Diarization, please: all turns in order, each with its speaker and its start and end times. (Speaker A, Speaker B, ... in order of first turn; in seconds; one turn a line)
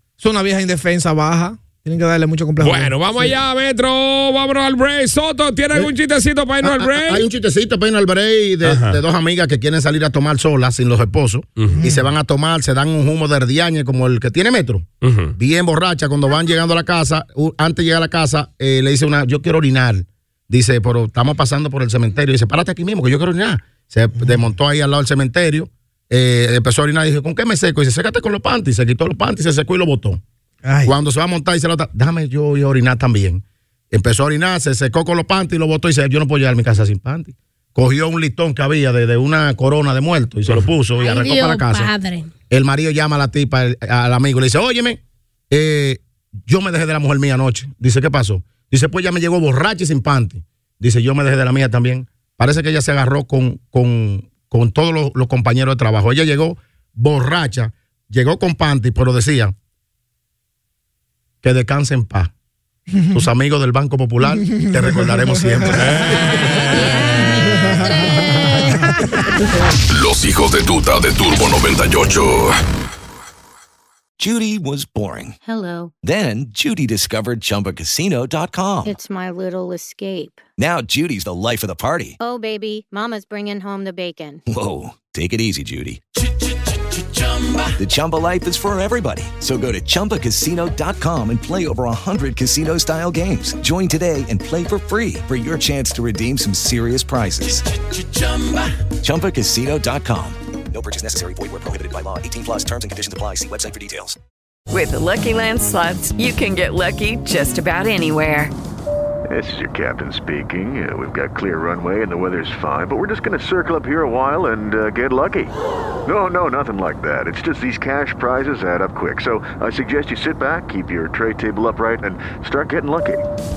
Speaker A: 0.2-3.4
Speaker B: 2.6-7.3
Speaker C: 6.6-30.2
Speaker B: 8.6-9.0
Speaker A: 11.8-12.1
Speaker B: 15.0-15.3
Speaker A: 30.6-30.9
Speaker C: 30.8-41.9
Speaker D: 41.0-42.3
Speaker C: 42.5-59.5
Speaker C: 61.4-62.3
Speaker C: 63.1-66.3
Speaker A: 64.5-65.8
Speaker B: 65.7-67.2
Speaker D: 66.7-69.0
Speaker A: 67.3-68.3
Speaker E: 69.9-72.6
Speaker F: 74.2-75.4
Speaker G: 75.4-75.9
Speaker F: 76.0-79.0
Speaker G: 78.8-80.4
Speaker F: 80.6-82.2
Speaker G: 82.2-84.4
Speaker F: 84.5-86.0
Speaker F: 87.8-97.7
Speaker F: 99.0-104.2
Speaker H: 104.7-108.5
Speaker I: 109.3-115.5
Speaker I: 116.1-123.2